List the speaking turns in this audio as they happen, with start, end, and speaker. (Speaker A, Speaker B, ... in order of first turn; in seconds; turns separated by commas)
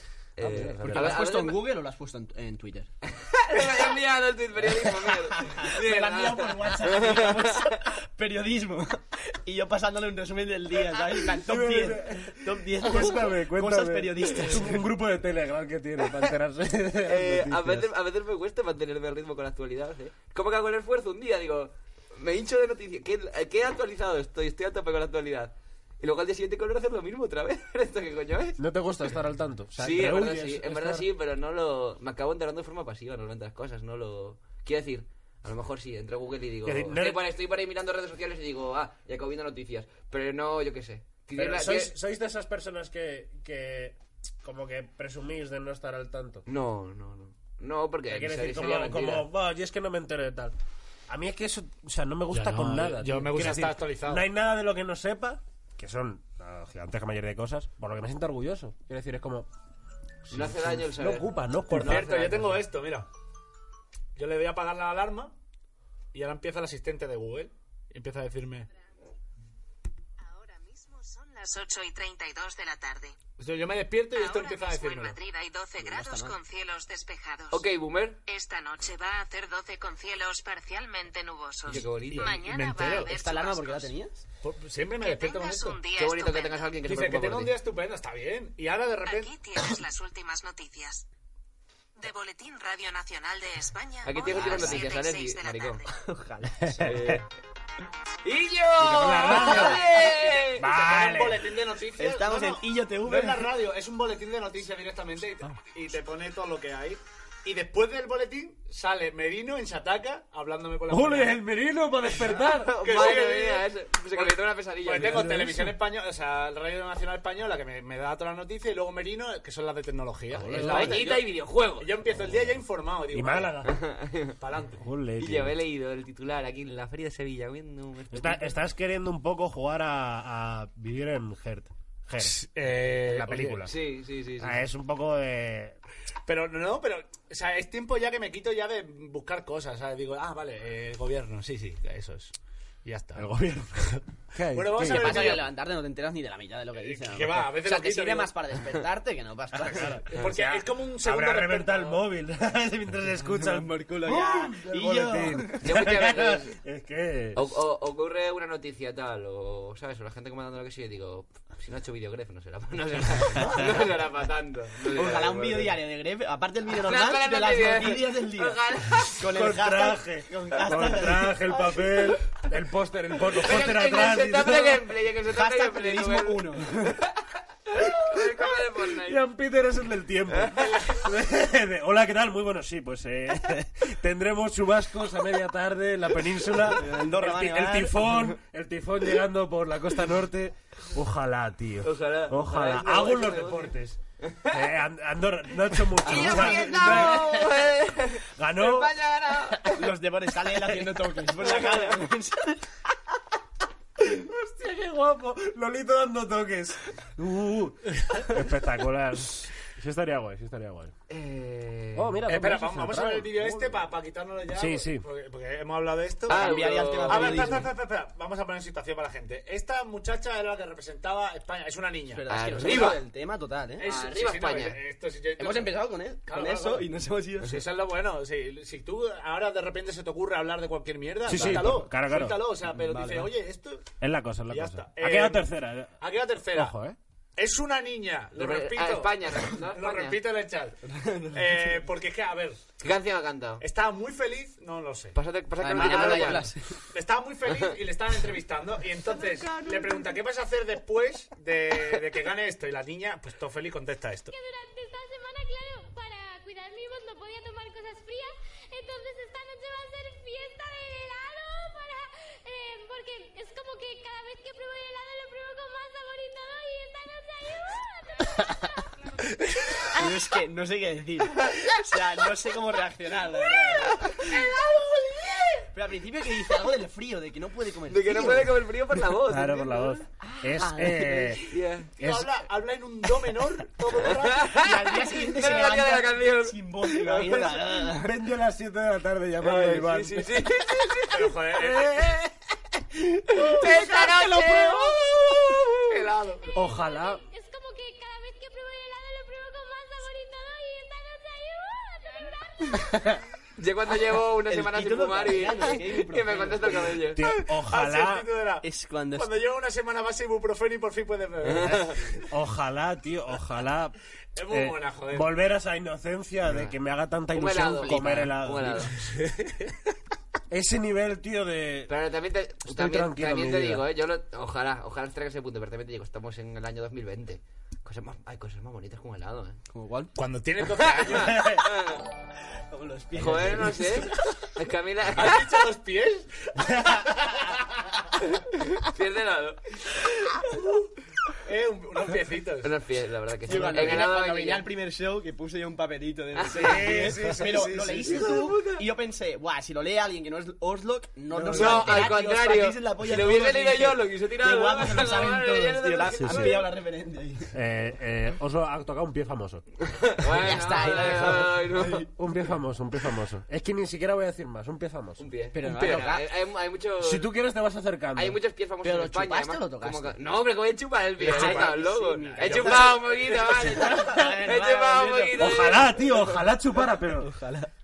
Speaker A: 0.3-1.7, Speaker B: 0.4-1.2, Speaker C: 0.6-2.9, Speaker A: 3.1-7.8, Speaker C: 5.0-14.8, Speaker D: 5.8-7.1, Speaker B: 11.3-17.9, Speaker A: 17.0-28.6, Speaker B: 28.6-31.1, Speaker A: 29.8-41.9, Speaker B: 36.6-37.2, Speaker B: 41.3-46.5, Speaker A: 46.5-49.3, Speaker B: 48.1-50.5, Speaker B: 51.1-59.5, Speaker D: 52.3-54.2, Speaker B: 60.2-62.3, Speaker A: 60.3-62.6, Speaker D: 61.7-63.1, Speaker D: 64.2-65.3, Speaker D: 66.1-68.7, Speaker E: 70.2-73.1, Speaker D: 73.4-75.2, Speaker E: 74.1-77.6, Speaker C: 75.8-76.4, Speaker A: 77.5-78.2, Speaker E: 78.2-83.9, Speaker A: 81.7-82.3, Speaker D: 81.9-83.1, Speaker C: 83.1-84.2, Speaker D: 84.4-85.8, Speaker E: 85.0-86.7, Speaker A: 86.0-87.5, Speaker D: 86.8-89.3, Speaker E: 89.0-91.0, Speaker E: 92.0-95.9, Speaker A: 94.0-95.8, Speaker C: 95.9-97.2, Speaker B: 96.6-97.2, Speaker A: 96.8-97.2, Speaker A: 98.2-100.6, Speaker B: 98.8-99.9, Speaker C: 99.3-99.8, Speaker D: 99.6-111.4, Speaker B: 100.5-101.5, Speaker C: 102.0-103.6, Speaker B: 110.9-112.9, Speaker D: 112.3-123.6, Speaker A: 112.4-115.3, Speaker B: 114.9-115.8, Speaker B: 120.3-121.0, Speaker A: 120.5-121.9, Speaker B: 123.1-123.8, Speaker A: 123.7-124.3, Speaker D: 124.4-124.8, Speaker B: 124.8-125.5, Speaker A: 125.2-128.6, Speaker B: 128.1-133.7, Speaker D: 132.2-133.7, Speaker A: 133.7-134.6, Speaker B: 134.4-135.8, Speaker D: 136.3-142.3, Speaker D: 142.8-145.5, Speaker B: 143.2-145.4, Speaker C: 144.9-150.0, Speaker D: 146.8-148.3, Speaker B: 149.5-157.5, Speaker D: 150.1-152.0, Speaker C: 153.3-155.6, Speaker A: 155.6-156.5, Speaker A: 157.3-165.8, Speaker C: 163.4-163.8, Speaker C: 164.9-171.8, Speaker A: 166.7-169.2, Speaker B: 169.2-174.9, Speaker A: 173.3-177.1, Speaker C: 175.3-177.0, Speaker A: 177.7-179.2, Speaker B: 178.9-197.7, Speaker A: 180.3-180.7, Speaker D: 180.7-181.0, Speaker C: 186.6-188.3, Speaker A: 191.8-194.7, Speaker A: 195.9-199.7, Speaker C: 196.1-197.2, Speaker B: 198.3-198.9, Speaker C: 199.7-202.8, Speaker A: 201.4-202.0, Speaker B: 204.0-210.9, Speaker A: 211.1-212.2, Speaker B: 211.9-213.8, Speaker D: 212.3-222.9, Speaker B: 214.5-215.0, Speaker C: 216.3-217.7, Speaker A: 216.3-217.7, Speaker C: 222.1-223.8, Speaker A: 222.3-223.0, Speaker D: 223.8-226.9, Speaker A: 223.8-224.8, Speaker C: 225.4-227.6, Speaker D: 227.4-233.8, Speaker B: 231.3-232.4, Speaker C: 232.8-233.3, Speaker B: 234.0-235.9, Speaker D: 234.5-236.8, Speaker B: 236.5-237.0, Speaker D: 237.4-240.8, Speaker A: 238.3-240.2, Speaker C: 240.8-241.8, Speaker D: 241.3-242.6, Speaker A: 242.8-243.6, Speaker D: 243.6-245.2, Speaker A: 245.1-246.5, Speaker C: 245.6-246.8, Speaker D: 245.8-254.3, Speaker F: 254.3-268.9, Speaker C: 269.9-274.4, Speaker C: 275.7-278.8, Speaker A: 277.9-280.0, Speaker B: 279.3-281.4, Speaker C: 280.3-281.4, Speaker A: 281.4-281.9, Speaker B: 282.0-282.3, Speaker D: 282.0-284.6, Speaker A: 284.1-287.7, Speaker C: 284.6-288.2, Speaker B: 287.7-290.5, Speaker A: 289.4-292.3, Speaker D: 291.1-291.9, Speaker B: 291.6-292.2, Speaker D: 293.3-295.0, Speaker A: 293.4-295.8, Speaker D: 295.8-296.6, Speaker B: 296.5-297.2, Speaker F: 296.6-303.1, Speaker A: 303.6-307.2, Speaker C: 304.5-307.1, Speaker B: 307.1-308.2, Speaker D: 307.5-312.0, Speaker C: 308.6-309.3, Speaker A: 311.4-312.0, Speaker B: 311.7-313.9, Speaker D: 314.4-315.3, Speaker B: 314.5-318.9, Speaker A: 316.4-316.7, Speaker A: 317.3-318.9, Speaker C: 317.8-318.3, Speaker D: 319.2-319.6, Speaker B: 320.5-321.9, Speaker A: 321.9-329.6, Speaker B: 322.6-323.8, Speaker C: 329.7-330.1, Speaker D: 330.1-331.6, Speaker A: 330.8-332.0, Speaker B: 331.1-331.6, Speaker C: 332.7-334.2, Speaker A: 333.1-335.6, Speaker D: 335.1-337.8, Speaker A: 338.8-339.8, Speaker D: 341.4-342.7, Speaker A: 342.6-344.7, Speaker C: 343.4-357.5, Speaker A: 346.3-347.0, Speaker B: 346.5-348.4, Speaker D: 346.9-348.2, Speaker A: 348.1-348.9, Speaker B: 351.3-351.7, Speaker A: 351.5-356.7, Speaker B: 356.2-356.7, Speaker B: 357.5-359.6, Speaker A: 359.9-362.1, Speaker C: 360.3-362.1, Speaker B: 362.1-365.2, Speaker A: 365.2-367.3, Speaker C: 365.5-366.2, Speaker B: 367.0-368.4, Speaker A: 368.1-376.1, Speaker C: 368.8-370.2, Speaker D: 371.2-373.1, Speaker C: 371.2-376.0, Speaker B: 373.7-374.4, Speaker B: 375.3-377.4, Speaker C: 376.8-377.7